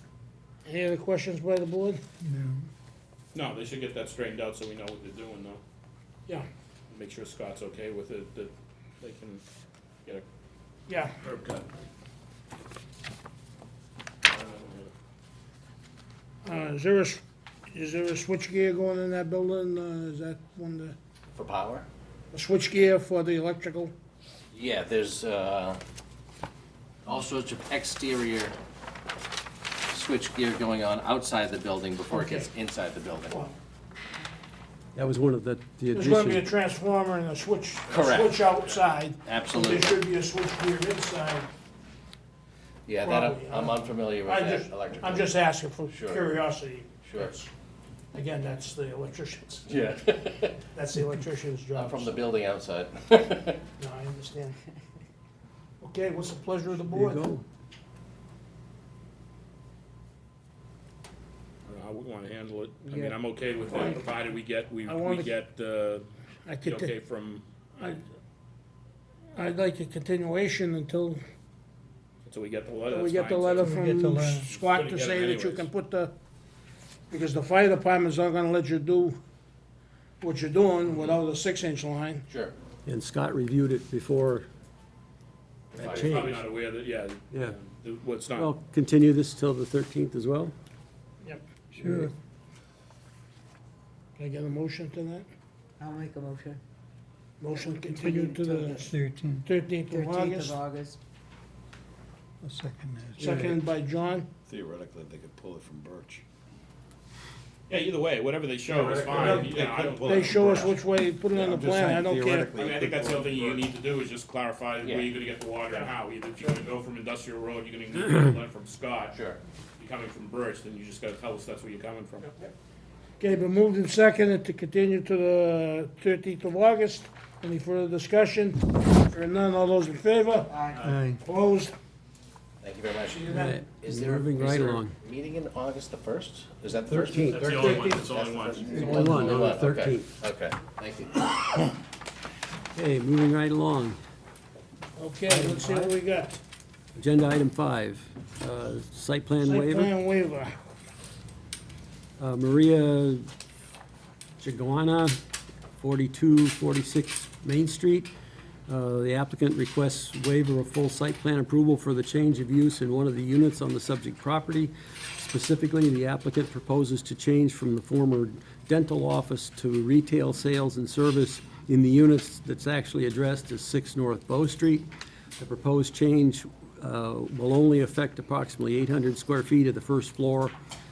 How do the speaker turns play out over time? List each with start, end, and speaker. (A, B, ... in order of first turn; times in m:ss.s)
0:00.6-0:02.0 A
0:02.2-0:02.6 B
0:03.3-0:05.6 C
0:06.9-0:09.4 C
0:10.9-0:11.1 A
0:11.2-0:11.7 C
0:14.2-0:14.9 C
0:16.4-0:21.0 A
0:21.3-0:21.9 D
0:22.3-0:23.9 A
0:24.5-0:25.8 D
0:27.0-0:28.6 D
0:29.9-0:33.3 D
0:32.1-0:32.5 A
0:33.3-0:33.5 A
0:35.0-0:36.5 E
0:35.9-0:41.5 A
0:37.9-0:38.6 D
0:39.2-0:40.0 D
0:42.9-0:45.3 D
0:43.0-0:47.5 A
0:45.9-0:46.3 D
0:47.0-0:47.4 D
0:48.1-0:49.7 A
0:49.7-0:50.6 D
0:50.7-0:52.2 A
0:51.8-0:53.6 D
0:53.8-0:54.6 A
0:55.8-0:57.2 A
0:56.9-0:57.4 E
1:01.7-1:06.1 C
1:02.8-1:03.2 F
1:03.7-1:04.0 A
1:04.9-1:05.4 A
1:06.4-1:06.9 A
1:06.6-1:07.4 C
1:09.3-1:11.2 A
1:12.2-1:13.7 C
1:12.9-1:16.1 A
1:13.6-1:14.5 B
1:14.5-1:15.7 C
1:17.1-1:19.2 A
1:20.2-1:22.2 A
1:22.3-1:22.5 D
1:22.9-1:24.5 E
1:25.8-1:26.2 D
1:25.8-1:28.5 C
1:25.8-1:26.4 E
1:28.4-1:30.5 E
1:31.7-1:32.1 B
1:31.8-1:32.1 E
1:34.2-1:35.3 A
1:35.8-1:36.6 F
1:37.4-1:40.6 A
1:37.6-1:38.9 F
1:38.9-1:39.4 B
1:39.9-1:41.0 F
1:42.4-1:43.6 B
1:43.2-1:44.3 A
1:44.5-1:46.2 G
1:47.7-1:50.7 C
1:48.7-1:50.7 G
1:49.1-1:52.6 A
1:49.5-1:50.0 D
1:51.3-1:53.7 G
1:52.6-1:59.2 C
1:54.8-1:55.1 D
1:59.1-1:59.4 D
1:59.8-2:02.3 C
2:03.2-2:10.6 A
2:10.5-2:10.9 F
2:10.8-2:11.2 B
2:11.2-2:11.7 A
2:12.6-2:21.7 D
2:13.1-2:13.4 A
2:13.3-2:15.0 E
2:16.9-2:17.8 E
2:17.3-2:19.6 C
2:17.5-2:18.0 A
2:18.7-2:20.1 E
2:18.8-2:19.1 B
2:22.7-2:24.0 E
2:25.0-2:26.4 A
2:25.3-2:25.9 E
2:27.0-2:29.9 E
2:29.4-2:30.5 A
2:32.2-2:33.3 E
2:34.4-2:35.2 E
2:35.8-2:38.1 E
2:38.7-2:54.9 E
2:55.4-3:00.5 E